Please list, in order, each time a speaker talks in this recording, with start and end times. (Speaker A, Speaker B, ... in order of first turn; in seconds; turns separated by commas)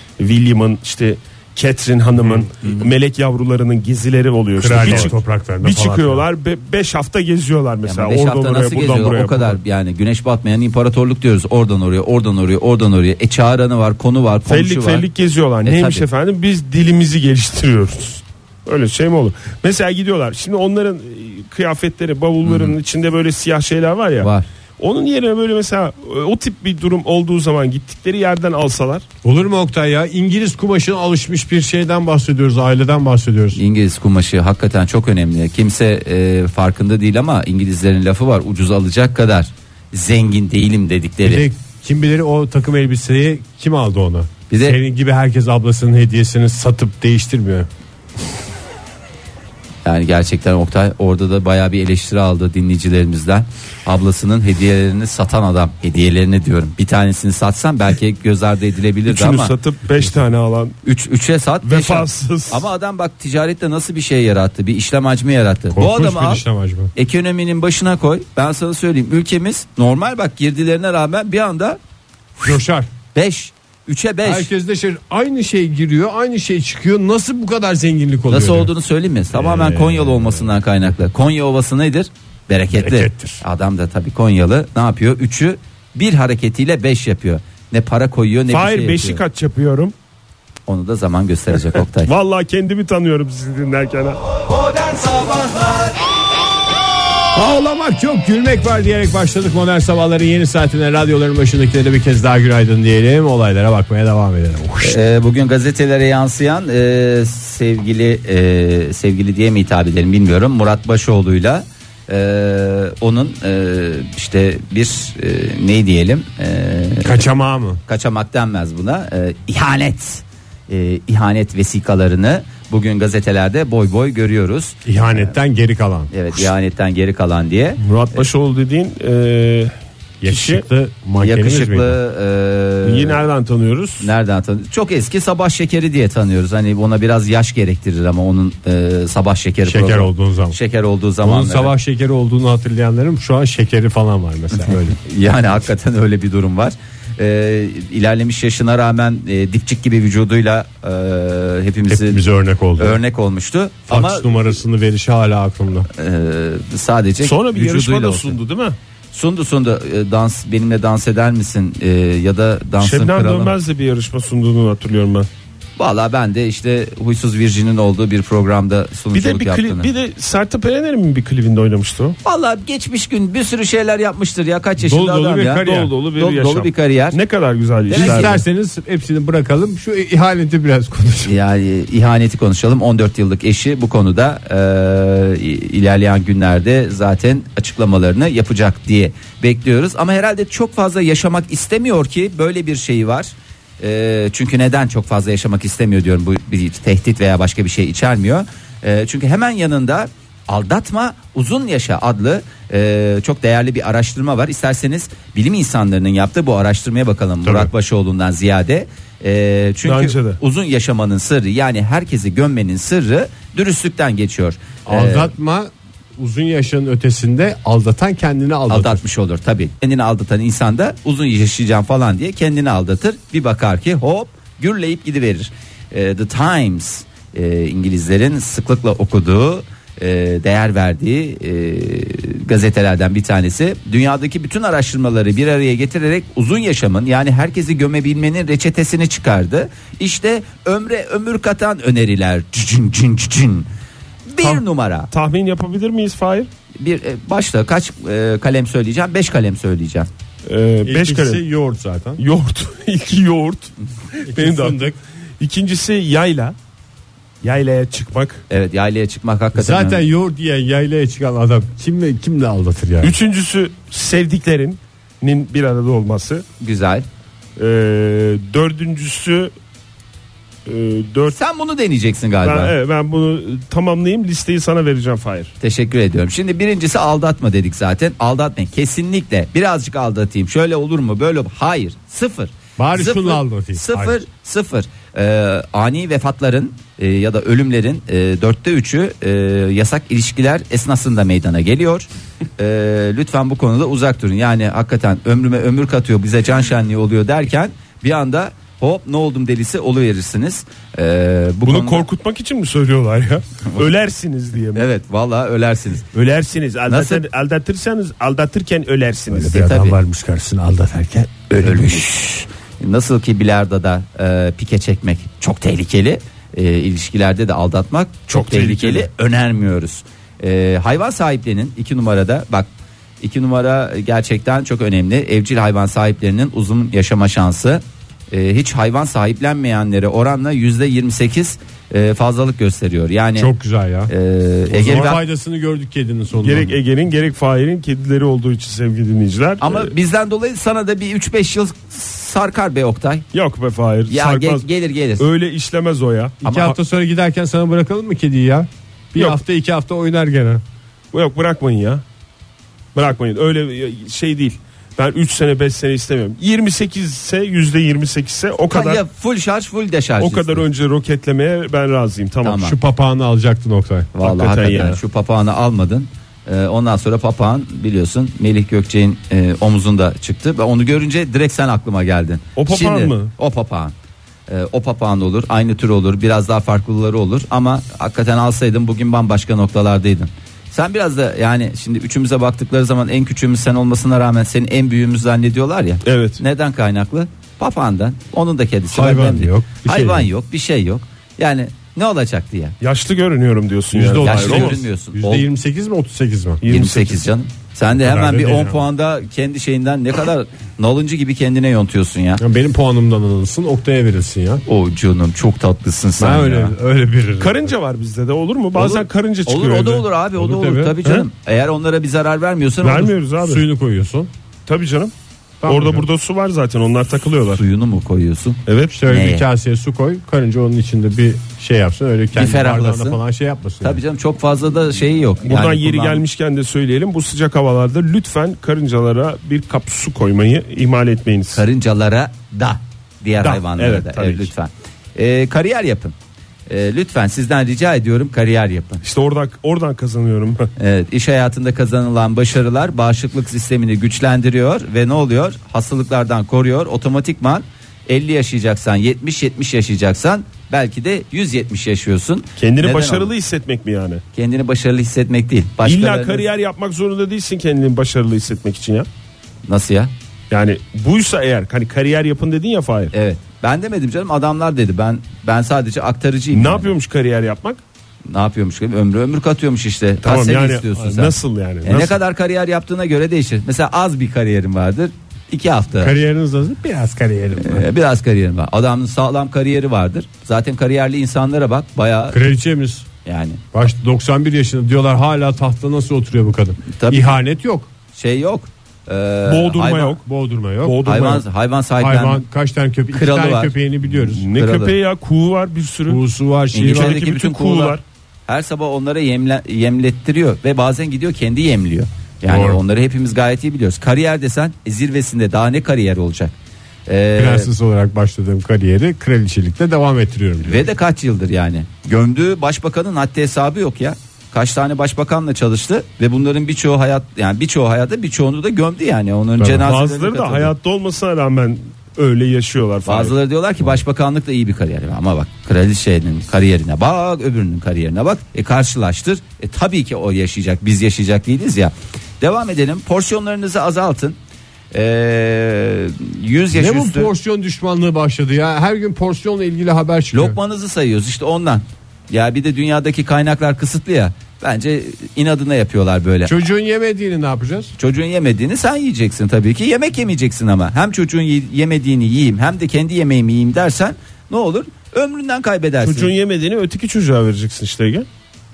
Speaker A: 0.2-9.6, Speaker B: 2.6-2.9, Speaker C: 4.6-6.3, Speaker B: 4.8-5.1, Speaker B: 7.8-15.1, Speaker A: 14.5-29.1, Speaker B: 15.7-16.1, Speaker B: 22.4-22.8, Speaker C: 29.2-33.6, Speaker B: 33.5-41.5, Speaker C: 41.2-47.7, Speaker B: 44.5-44.8, Speaker B: 49.9-59.5, Speaker A: 59.1-60.8, Speaker B: 60.9-66.4, Speaker A: 61.6-62.7, Speaker C: 65.7-66.9, Speaker B: 67.0-71.8, Speaker C: 72.4-72.9, Speaker B: 73.1-74.5, Speaker C: 74.2-78.7, Speaker B: 78.3-89.2, Speaker C: 79.3-80.5, Speaker C: 82.7-83.4, Speaker A: 88.5-89.9, Speaker B: 90.7-92.1, Speaker A: 92.0-94.2, Speaker B: 94.7-95.9, Speaker C: 97.3-105.0, Speaker B: 104.8-117.3, Speaker C: 117.0-117.8, Speaker B: 117.9-125.3, Speaker C: 124.8-126.5, Speaker B: 126.1-128.3, Speaker A: 127.8-129.7, Speaker C: 130.2-132.0, Speaker A: 130.2-130.6, Speaker B: 131.2-133.2, Speaker A: 132.8-134.1, Speaker B: 134.0-141.7, Speaker C: 139.7-140.6, Speaker C: 141.2-145.0, Speaker B: 144.7-152.2, Speaker C: 151.9-153.0, Speaker B: 152.8-154.3, Speaker C: 153.9-155.9, Speaker B: 155.9-158.4, Speaker A: 157.2-158.8, Speaker B: 159.1-163.6, Speaker A: 162.8-165.3, Speaker B: 165.8-169.9, Speaker A: 169.1-172.2, Speaker B: 172.2-177.2, Speaker C: 174.8-175.9, Speaker A: 175.4-178.4, Speaker B: 177.9-178.4, Speaker C: 177.9-181.3, Speaker B: 181.2-215.3, Speaker C: 207.4-207.7, Speaker A: 209.8-210.4, Speaker C: 214.9-219.0, Speaker B: 218.7-243.7, Speaker B: 244.3-245.1, Speaker A: 244.4-246.5, Speaker B: 246.8-250.1, Speaker A: 250.5-251.4, Speaker C: 250.8-252.2, Speaker A: 252.2-254.8, Speaker C: 254.2-255.0, Speaker A: 255.4-256.6, Speaker A: 257.4-258.4, Speaker B: 258.5-260.0, Speaker C: 259.5-263.2, Speaker A: 263.0-266.4, Speaker B: 266.6-267.1, Speaker A: 267.6-269.5, Speaker A: 270.7-271.4, Speaker B: 271.3-272.8, Speaker A: 272.4-275.5, Speaker B: 275.6-292.1, Speaker C: 282.8-284.2, Speaker B: 292.6-302.1, Speaker A: 301.6-304.9, Speaker B: 304.8-306.1, Speaker A: 306.1-309.7, Speaker B: 306.9-307.2, Speaker C: 309.3-312.1, Speaker B: 309.5-310.0, Speaker B: 311.6-322.7, Speaker A: 318.3-319.1, Speaker B: 323.2-333.5, Speaker C: 333.4-334.1, Speaker B: 334.1-335.2, Speaker C: 334.7-336.8, Speaker A: 336.3-339.9, Speaker B: 339.6-343.2, Speaker A: 343.3-344.7, Speaker B: 344.1-345.3, Speaker A: 345.2-346.7, Speaker C: 346.4-350.6, Speaker B: 346.4-346.7, Speaker A: 351.1-352.0, Speaker A: 352.9-359.0, Speaker B: 358.7-360.6, Speaker A: 360.2-362.6, Speaker B: 362.4-362.8, Speaker C: 362.6-364.1, Speaker B: 364.1-373.9, Speaker A: 364.2-365.0, Speaker A: 372.6-373.3, Speaker B: 374.5-392.8, Speaker A: 386.1-386.4, Speaker C: 388.9-390.3, Speaker A: 392.8-394.8, Speaker C: 393.9-396.6, Speaker B: 394.2-395.5, Speaker A: 396.6-397.3, Speaker B: 396.7-402.4, Speaker C: 397.9-398.9, Speaker C: 402.4-404.6, Speaker B: 404.7-406.7, Speaker C: 406.2-407.7, Speaker A: 407.4-410.1, Speaker B: 408.8-413.1, Speaker C: 410.4-411.0, Speaker A: 412.8-413.6, Speaker C: 413.4-414.3, Speaker A: 414.7-415.1, Speaker C: 415.6-416.1, Speaker A: 415.7-417.6, Speaker B: 417.5-419.4, Speaker A: 418.7-419.0, Speaker C: 418.9-424.0, Speaker B: 422.4-423.2, Speaker B: 423.8-426.2, Speaker A: 425.4-431.6, Speaker B: 431.5-436.1, Speaker A: 433.4-434.5, Speaker B: 436.7-439.0, Speaker A: 439.0-440.7, Speaker B: 440.8-453.3, Speaker A: 452.6-454.2, Speaker B: 454.3-456.4, Speaker A: 455.8-459.1, Speaker B: 459.7-460.1, Speaker A: 460.5-463.1, Speaker B: 463.1-466.9, Speaker A: 466.5-467.8, Speaker B: 468.3-476.1, Speaker A: 470.2-472.2, Speaker C: 476.0-477.9, Speaker B: 477.6-482.4, Speaker C: 482.3-483.1, Speaker B: 483.2-483.6, Speaker C: 483.7-487.9, Speaker B: 486.9-487.4, Speaker B: 488.1-490.2, Speaker A: 489.5-490.2, Speaker C: 490.2-491.0, Speaker A: 490.8-491.4, Speaker B: 491.0-492.4, Speaker C: 492.0-494.5, Speaker B: 493.1-493.7, Speaker A: 494.3-496.2, Speaker B: 494.5-494.9, Speaker C: 496.1-497.2, Speaker B: 496.7-506.6, Speaker A: 496.8-498.0, Speaker C: 502.5-502.8, Speaker B: 507.1-507.7, Speaker C: 507.4-510.9, Speaker B: 510.6-520.7, Speaker C: 519.6-519.9, Speaker A: 519.8-523.4, Speaker B: 523.1-534.4, Speaker B: 534.9-537.3, Speaker C: 536.7-540.6, Speaker B: 540.3-546.5, Speaker C: 546.5-547.9, Speaker B: 548.0-556.3, Speaker A: 556.0-558.3